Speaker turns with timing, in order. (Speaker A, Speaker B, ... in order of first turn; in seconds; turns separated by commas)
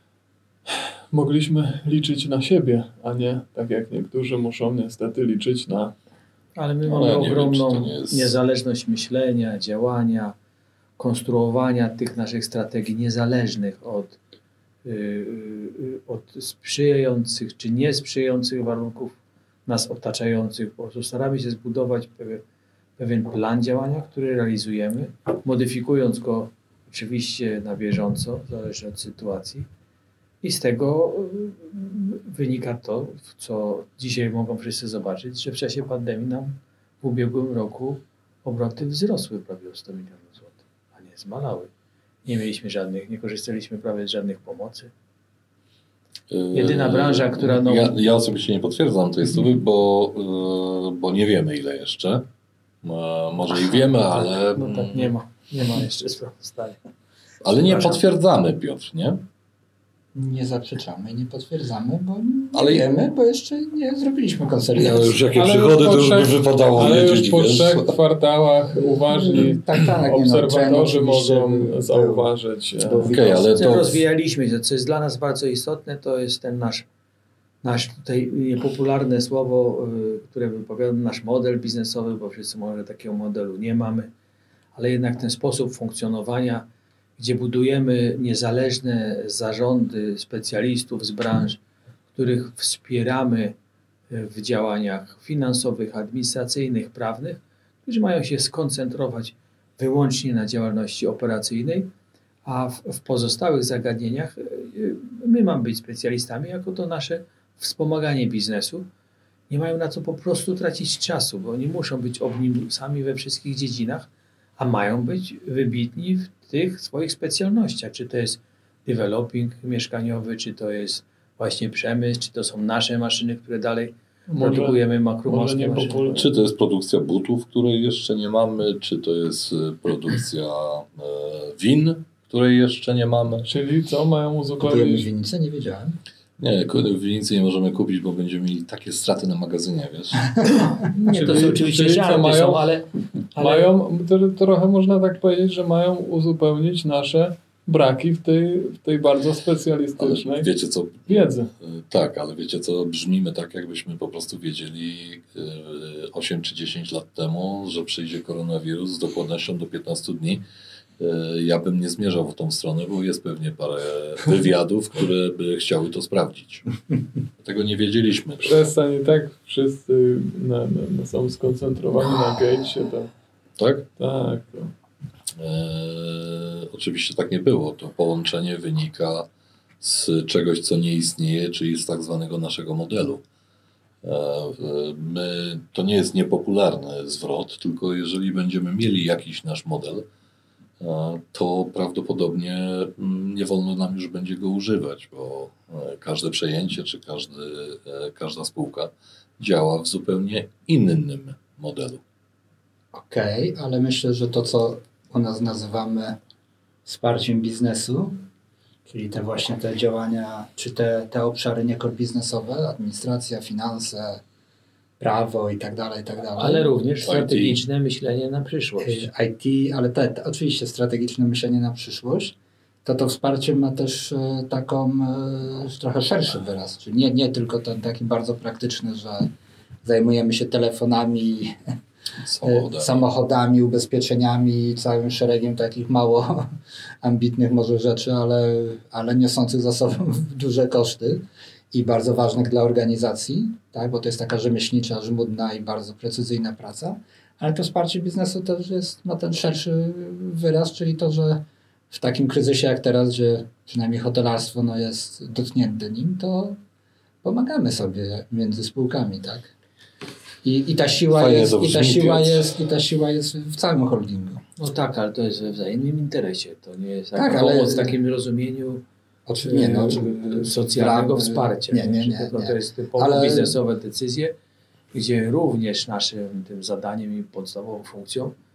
Speaker A: 0.7-5.9, Speaker B: 6.5-10.3, Speaker C: 6.8-8.3, Speaker B: 11.0-14.2, Speaker B: 14.8-22.4, Speaker B: 23.0-29.7, Speaker B: 30.4-41.7, Speaker B: 42.2-44.9, Speaker C: 46.3-52.3, Speaker B: 46.5-48.0, Speaker C: 52.8-55.1, Speaker B: 53.5-56.8, Speaker C: 57.4-59.2, Speaker B: 57.6-58.0, Speaker D: 60.1-65.2, Speaker C: 62.5-62.9, Speaker C: 64.7-67.9, Speaker A: 65.3-73.1, Speaker D: 69.1-72.3, Speaker D: 72.8-73.7, Speaker C: 73.1-74.0, Speaker B: 73.5-76.8, Speaker B: 77.6-84.1, Speaker B: 84.7-86.7, Speaker B: 87.2-91.6, Speaker B: 92.1-93.5, Speaker B: 94.1-101.9, Speaker B: 102.4-108.9, Speaker B: 109.5-126.1, Speaker A: 124.3-126.3, Speaker C: 126.1-133.5, Speaker A: 133.4-135.1, Speaker D: 134.6-136.0, Speaker C: 136.4-140.4, Speaker B: 140.8-143.7, Speaker A: 141.1-142.6, Speaker A: 143.3-150.5, Speaker C: 150.0-160.4, Speaker A: 151.1-151.5, Speaker C: 161.0-166.8, Speaker C: 167.4-168.7, Speaker A: 168.4-173.1, Speaker C: 173.6-173.9, Speaker A: 174.0-174.7, Speaker C: 175.3-179.3, Speaker C: 179.8-183.2, Speaker C: 184.0-190.0, Speaker C: 190.8-202.0, Speaker D: 202.9-206.2, Speaker D: 206.8-208.2, Speaker D: 208.8-214.2, Speaker D: 215.0-216.7, Speaker B: 216.3-219.1, Speaker C: 217.0-217.6, Speaker D: 218.8-229.3, Speaker D: 229.8-231.6, Speaker C: 232.2-233.0, Speaker D: 232.4-256.6, Speaker D: 257.2-259.5, Speaker D: 260.4-264.4, Speaker C: 261.1-262.6, Speaker B: 264.6-268.8, Speaker D: 267.1-268.0, Speaker D: 269.3-273.6, Speaker B: 269.4-274.3, Speaker B: 274.9-278.3